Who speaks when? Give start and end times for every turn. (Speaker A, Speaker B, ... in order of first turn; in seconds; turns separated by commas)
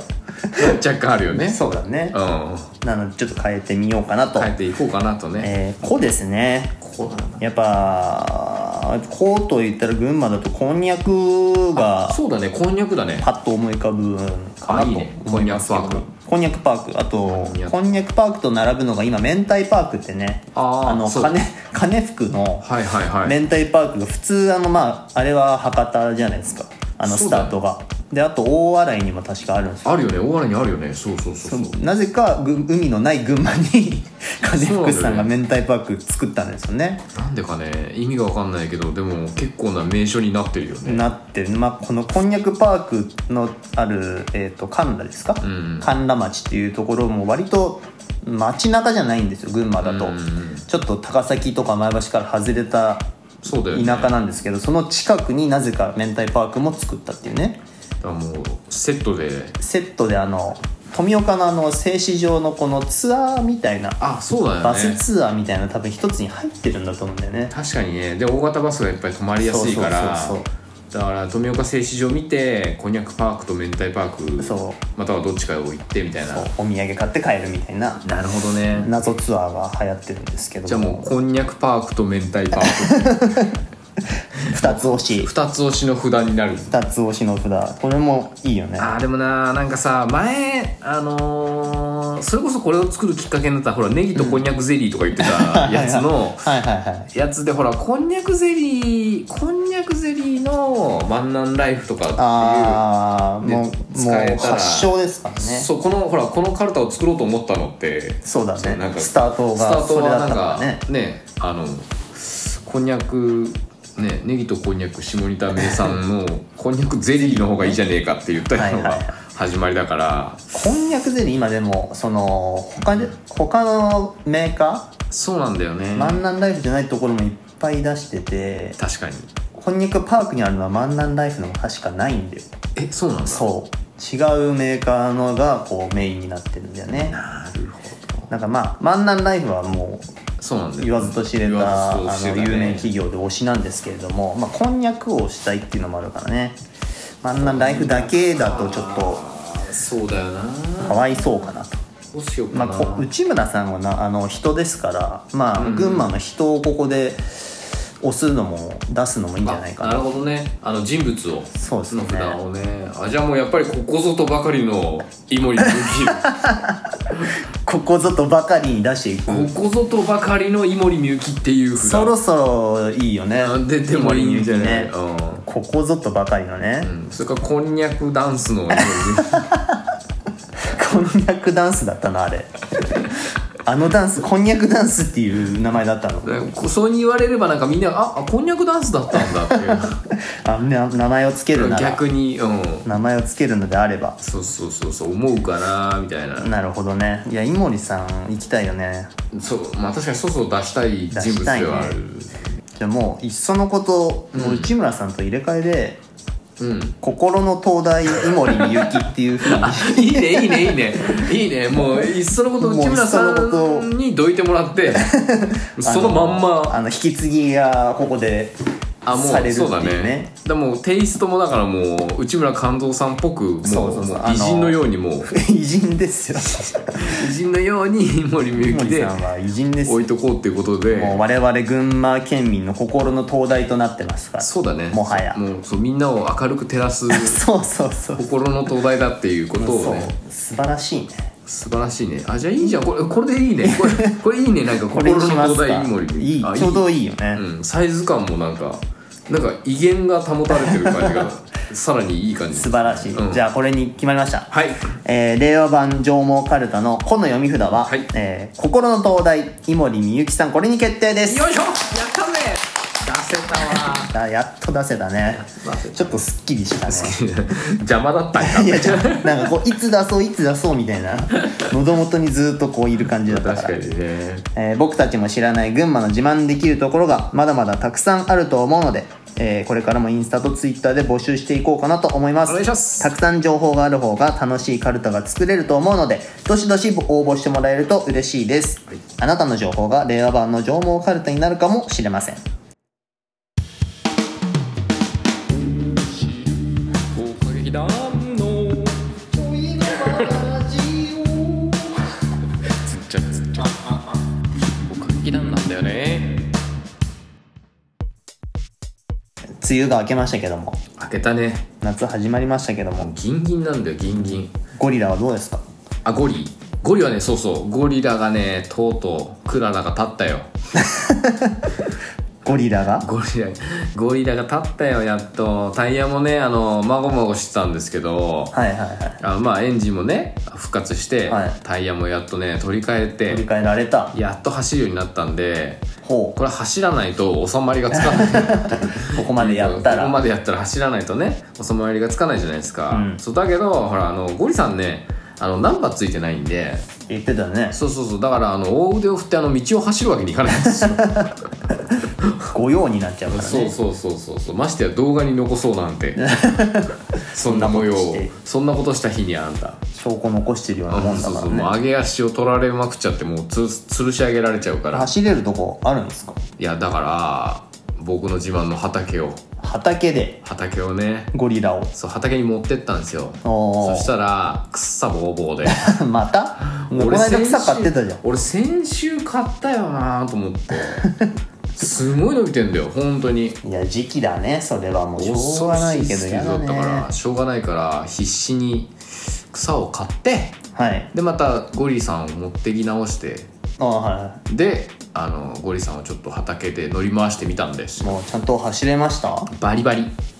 Speaker A: 0.5-1.6, Speaker B: 1.4-2.2, Speaker A: 2.1-2.7, Speaker B: 2.8-4.5, Speaker A: 4.3-5.5, Speaker B: 5.4-6.8, Speaker A: 6.8-7.5, Speaker B: 7.4-12.2, Speaker A: 11.8-13.3, Speaker B: 13.2-30.1, Speaker A: 14.6-16.1, Speaker A: 17.2-17.8, Speaker A: 20.5-21.4, Speaker A: 22.6-23.4, Speaker A: 27.0-27.6, Speaker A: 29.8-31.8, Speaker B: 31.4-37.0, Speaker A: 34.4-35.3, Speaker A: 37.1-41.1, Speaker B: 40.9-50.2, Speaker A: 45.4-45.9, Speaker A: 49.8-50.6, Speaker B: 50.7-53.1, Speaker A: 53.4-54.2, Speaker B: 53.7-57.6, Speaker A: 58.0-59.6, Speaker B: 59.6-64.0, Speaker A: 64.0-65.0, Speaker B: 64.6-67.5, Speaker A: 67.5-76.5, Speaker B: 69.4-70.5, Speaker B: 74.4-74.8, Speaker B: 76.2-81.2, Speaker A: 78.0-79.0, Speaker A: 80.7-83.4, Speaker B: 82.6-83.6, Speaker B: 84.4-85.3, Speaker A: 84.5-86.8, Speaker B: 86.7-88.9, Speaker A: 88.8-96.6, Speaker B: 94.2-94.5, Speaker B: 95.2-97.1, Speaker A: 97.1-102.8, Speaker B: 102.1-105.7, Speaker A: 103.4-120.5, Speaker B: 108.2-110.8, Speaker B: 115.6-115.9, Speaker B: 117.2-117.8, Speaker B: 118.5-119.2, Speaker B: 120.5-124.9, Speaker A: 125.1-126.2, Speaker B: 125.9-128.8, Speaker A: 128.8-129.3, Speaker B: 129.5-132.5, Speaker A: 132.8-133.5, Speaker B: 133.2-137.2, Speaker A: 137.1-138.3, Speaker B: 138.3-140.1, Speaker A: 140.4-142.9, Speaker B: 140.8-146.6, Speaker B: 147.2-149.2, Speaker A: 147.3-151.2, Speaker B: 150.8-151.8, Speaker A: 152.1-153.1, Speaker B: 152.5-157.2, Speaker A: 155.6-156.1, Speaker B: 158.0-160.0, Speaker A: 159.4-166.3, Speaker B: 161.6-162.4, Speaker B: 165.6-169.5, Speaker A: 169.3-172.2, Speaker B: 171.8-174.9, Speaker A: 173.4-175.4, Speaker B: 175.4-176.9, Speaker A: 176.8-179.5, Speaker B: 178.7-179.8, Speaker B: 180.7-183.1, Speaker B: 183.7-186.4, Speaker A: 186.2-190.0, Speaker B: 189.3-192.0, Speaker A: 191.5-192.9, Speaker B: 192.8-194.2, Speaker A: 194.2-196.5, Speaker B: 196.4-199.1, Speaker A: 199.3-202.4, Speaker B: 201.1-202.0, Speaker B: 202.8-206.0, Speaker A: 204.3-204.7, Speaker A: 206.6-207.0, Speaker B: 207.0-211.0, Speaker A: 209.4-215.2, Speaker B: 211.7-213.9, Speaker B: 214.9-218.6, Speaker A: 215.8-216.8, Speaker A: 219.1-225.3, Speaker B: 219.1-220.3, Speaker B: 223.6-227.1, Speaker A: 227.0-229.2, Speaker B: 228.6-230.1, Speaker A: 229.9-231.2, Speaker B: 230.9-235.4, Speaker A: 234.4-237.4, Speaker B: 237.1-238.2, Speaker A: 238.2-240.1, Speaker B: 239.6-241.3, Speaker A: 241.5-253.4, Speaker B: 243.6-244.2, Speaker B: 244.9-247.4, Speaker B: 250.7-251.3, Speaker B: 252.5-254.5, Speaker A: 254.5-254.9, Speaker B: 255.0-261.5, Speaker A: 257.8-258.1, Speaker A: 261.3-264.2, Speaker B: 264.1-267.2, Speaker A: 265.3-266.2, Speaker A: 266.9-269.5, Speaker B: 268.4-274.0, Speaker A: 273.3-274.5, Speaker B: 274.6-292.4, Speaker A: 282.5-283.1, Speaker A: 295.6-299.0, Speaker B: 299.3-302.0, Speaker A: 299.9-300.5, Speaker A: 302.8-304.0, Speaker B: 303.6-303.9, Speaker A: 304.8-306.5, Speaker B: 309.6-310.8, Speaker A: 311.0-311.7, Speaker B: 311.8-313.1, Speaker A: 313.0-314.5, Speaker B: 314.2-315.6, Speaker A: 316.1-320.5, Speaker B: 320.8-321.7, Speaker B: 322.4-323.1, Speaker A: 323.0-328.6, Speaker B: 328.5-329.2, Speaker A: 329.2-333.4, Speaker B: 331.3-331.6, Speaker B: 333.3-334.1, Speaker A: 334.1-346.9, Speaker B: 336.0-336.4, Speaker B: 337.9-340.2, Speaker B: 342.9-343.2, Speaker B: 347.1-347.8, Speaker A: 347.7-351.3, Speaker B: 350.5-351.3, Speaker B: 352.5-353.8, Speaker A: 353.3-356.3, Speaker B: 356.2-358.3, Speaker A: 357.3-359.8, Speaker B: 359.9-361.7, Speaker A: 360.9-365.1, Speaker B: 364.9-366.4, Speaker A: 366.6-369.4, Speaker B: 369.6-370.4, Speaker A: 370.4-371.3, Speaker B: 371.3-371.9, Speaker A: 371.9-375.9, Speaker B: 373.4-374.1, Speaker B: 375.7-378.2, Speaker A: 376.7-381.1, Speaker B: 381.0-381.3, Speaker A: 381.8-383.6, Speaker B: 383.6-387.1, Speaker A: 385.2-388.9, Speaker A: 389.5-390.6, Speaker B: 390.8-391.1, Speaker A: 391.1-393.5, Speaker B: 393.8-394.4, Speaker A: 394.5-398.2, Speaker B: 398.0-399.5, Speaker A: 399.5-400.1